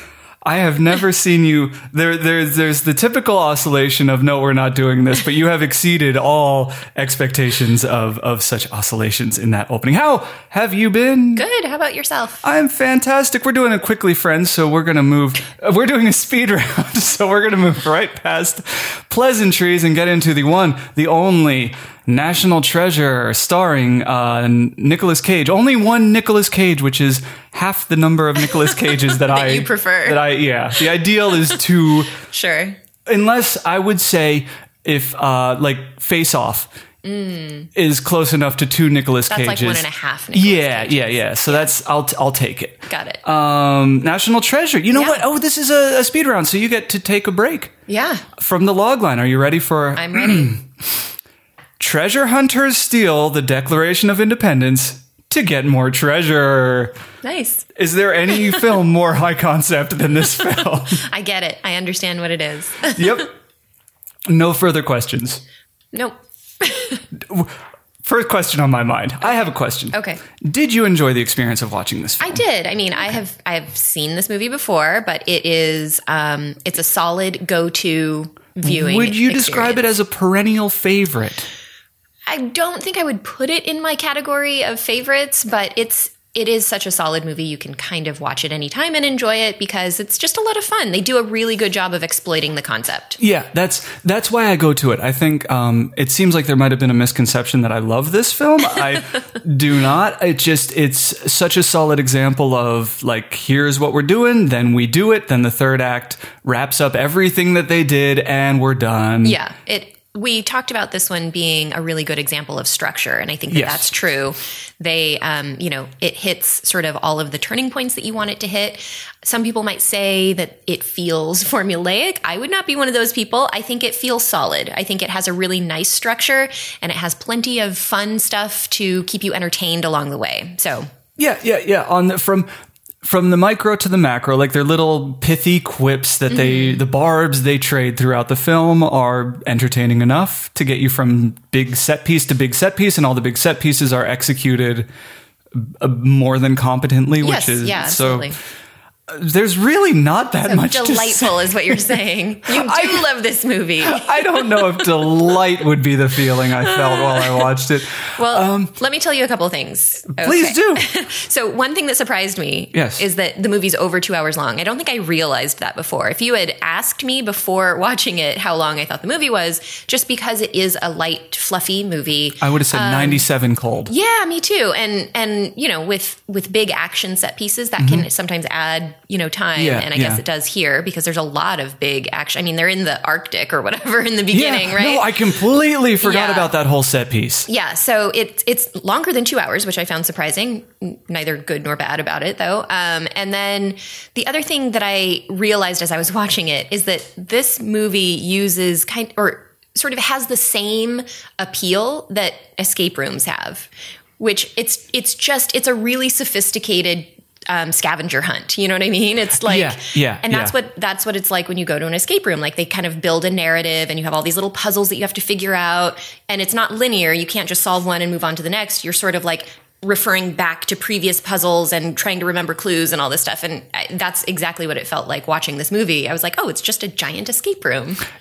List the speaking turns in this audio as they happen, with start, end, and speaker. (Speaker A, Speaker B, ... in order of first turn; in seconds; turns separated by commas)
Speaker A: 0.5-11.5, Speaker B: 11.4-12.4, Speaker A: 12.4-32.2, Speaker B: 28.6-30.3, Speaker B: 31.3-31.6, Speaker B: 32.3-32.8, Speaker A: 33.1-36.7, Speaker B: 37.0-37.7, Speaker A: 37.8-47.7, Speaker B: 39.3-41.7, Speaker B: 42.9-43.2, Speaker B: 44.9-45.2, Speaker B: 47.9-48.3, Speaker A: 48.4-50.7, Speaker B: 50.0-50.5, Speaker A: 51.8-57.0, Speaker B: 57.2-57.7, Speaker A: 57.8-61.0, Speaker B: 61.0-63.2, Speaker A: 62.9-63.3, Speaker A: 64.3-65.4, Speaker B: 65.9-67.0, Speaker A: 67.1-72.4, Speaker B: 69.9-70.2, Speaker B: 72.2-79.8, Speaker A: 78.6-81.5, Speaker B: 82.3-93.2, Speaker A: 93.2-109.4, Speaker B: 109.2-130.9, Speaker A: 113.5-113.9, Speaker A: 131.2-132.5, Speaker A: 133.0-144.9, Speaker B: 136.3-136.8, Speaker A: 145.5-148.3, Speaker B: 147.2-148.4, Speaker A: 149.1-151.8, Speaker B: 150.4-154.9, Speaker A: 152.5-153.1, Speaker A: 153.8-158.7, Speaker B: 156.7-173.3, Speaker A: 160.2-160.9, Speaker A: 162.7-163.0, Speaker A: 172.4-173.9, Speaker B: 173.9-185.2, Speaker A: 177.8-178.1, Speaker A: 179.6-180.2, Speaker A: 184.3-187.5, Speaker B: 186.0-186.5, Speaker B: 187.5-228.0, Speaker A: 209.4-210.5